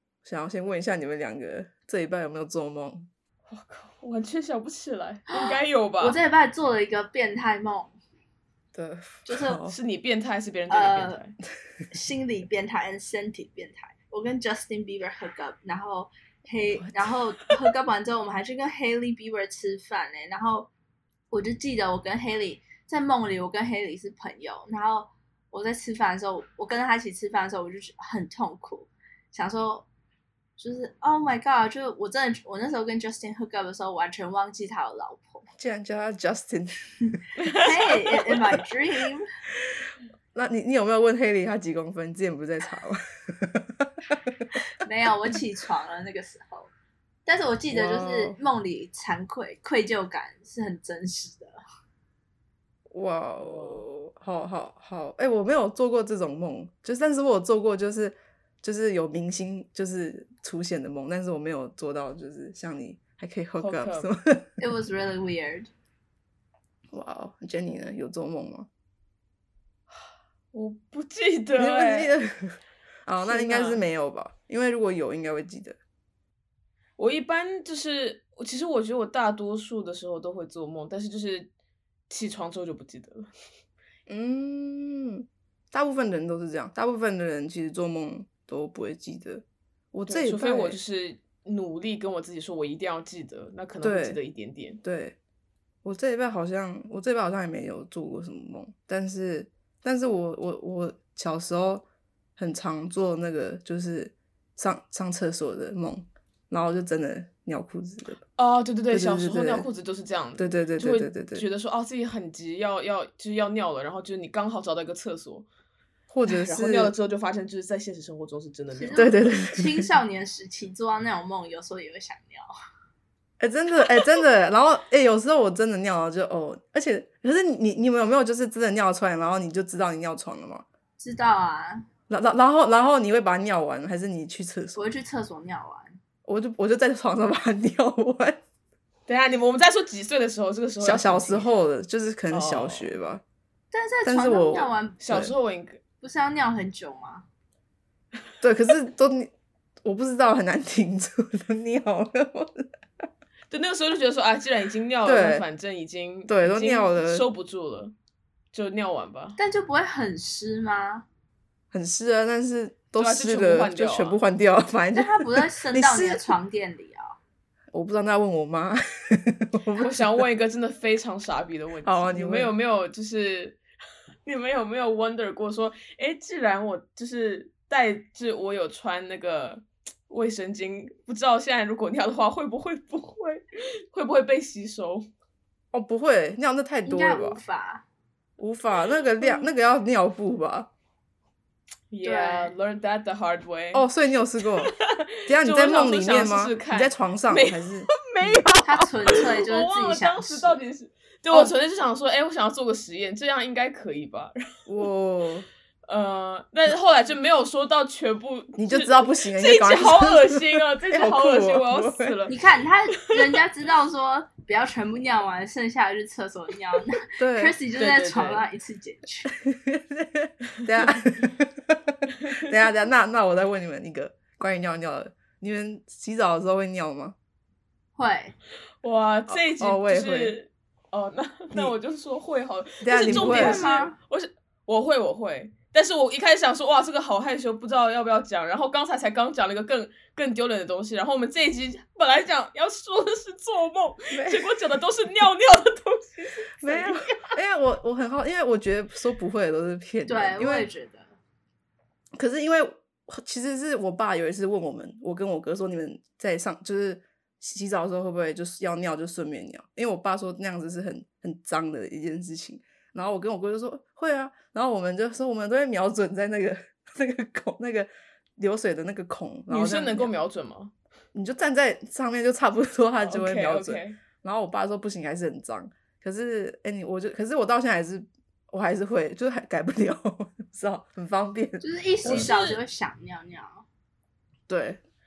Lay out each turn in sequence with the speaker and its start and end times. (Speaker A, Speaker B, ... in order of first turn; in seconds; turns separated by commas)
Speaker A: 0.2-3.1, Speaker B: 3.5-6.2, Speaker C: 5.4-7.9, Speaker A: 8.7-9.8, Speaker C: 9.2-9.6, Speaker B: 9.7-11.3, Speaker C: 10.7-11.2, Speaker C: 11.9-20.7, Speaker A: 16.8-17.0, Speaker C: 21.3-29.9, Speaker C: 30.6-35.5, Speaker A: 35.6-36.9, Speaker B: 37.4-38.3, Speaker C: 37.5-39.2, Speaker A: 40.3-44.4, Speaker C: 44.8-46.7, Speaker C: 47.2-51.6, Speaker A: 47.7-48.4, Speaker A: 52.9-64.5, Speaker B: 53.4-53.8, Speaker B: 63.6-64.1, Speaker C: 64.6-65.7, Speaker A: 66.9-68.7, Speaker B: 70.5-72.1, Speaker A: 71.6-75.8, Speaker B: 73.2-73.8, Speaker B: 77.0-81.5, Speaker B: 82.1-83.3, Speaker A: 84.1-90.8, Speaker B: 90.1-94.8, Speaker A: 93.8-94.2, Speaker A: 94.8-95.2, Speaker A: 95.8-101.8, Speaker A: 102.4-108.2, Speaker B: 108.3-115.5, Speaker A: 108.9-109.7, Speaker A: 110.4-111.4, Speaker A: 116.1-116.9, Speaker B: 116.3-119.1, Speaker C: 118.7-122.5, Speaker A: 119.0-119.9, Speaker A: 123.4-130.6, Speaker C: 131.0-131.8, Speaker A: 132.1-134.8, Speaker C: 134.8-136.0, Speaker A: 136.2-138.4, Speaker B: 139.1-141.6, Speaker A: 140.8-143.2, Speaker B: 142.3-142.9, Speaker C: 143.7-145.0, Speaker A: 144.0-145.3, Speaker B: 145.0-145.8, Speaker C: 146.0-147.2, Speaker A: 148.4-149.3, Speaker A: 149.8-152.7, Speaker B: 153.5-157.9, Speaker A: 155.0-155.4, Speaker A: 156.3-157.2, Speaker B: 158.5-159.4, Speaker C: 159.4-161.1, Speaker A: 161.7-166.3, Speaker B: 162.9-164.2, Speaker C: 164.9-167.1, Speaker A: 167.7-170.2, Speaker B: 169.8-173.6, Speaker A: 171.8-172.5, Speaker B: 174.2-185.1, Speaker A: 185.7-187.4, Speaker C: 186.8-187.8, Speaker A: 188.4-190.7, Speaker B: 189.2-189.5, Speaker B: 191.9-193.9, Speaker C: 192.0-192.5, Speaker A: 193.7-194.7, Speaker B: 194.6-204.4, Speaker A: 195.2-198.6, Speaker C: 198.6-200.6, Speaker A: 204.7-205.5, Speaker B: 205.9-212.4, Speaker A: 208.6-212.2, Speaker C: 212.3-219.3, Speaker A: 217.2-217.6, Speaker B: 217.8-218.4, Speaker A: 219.4-227.2, Speaker B: 222.2-222.5, Speaker C: 228.0-228.3, Speaker B: 228.8-247.1, Speaker A: 229.3-230.3, Speaker A: 232.8-233.7, Speaker C: 233.0-233.9, Speaker A: 244.1-244.5, Speaker A: 246.6-250.7, Speaker C: 250.1-251.1, Speaker A: 252.2-270.1, Speaker B: 269.5-270.7, Speaker A: 271.1-282.3, Speaker B: 273.0-274.0, Speaker C: 281.6-283.6, Speaker B: 282.0-282.6, Speaker A: 284.5-284.8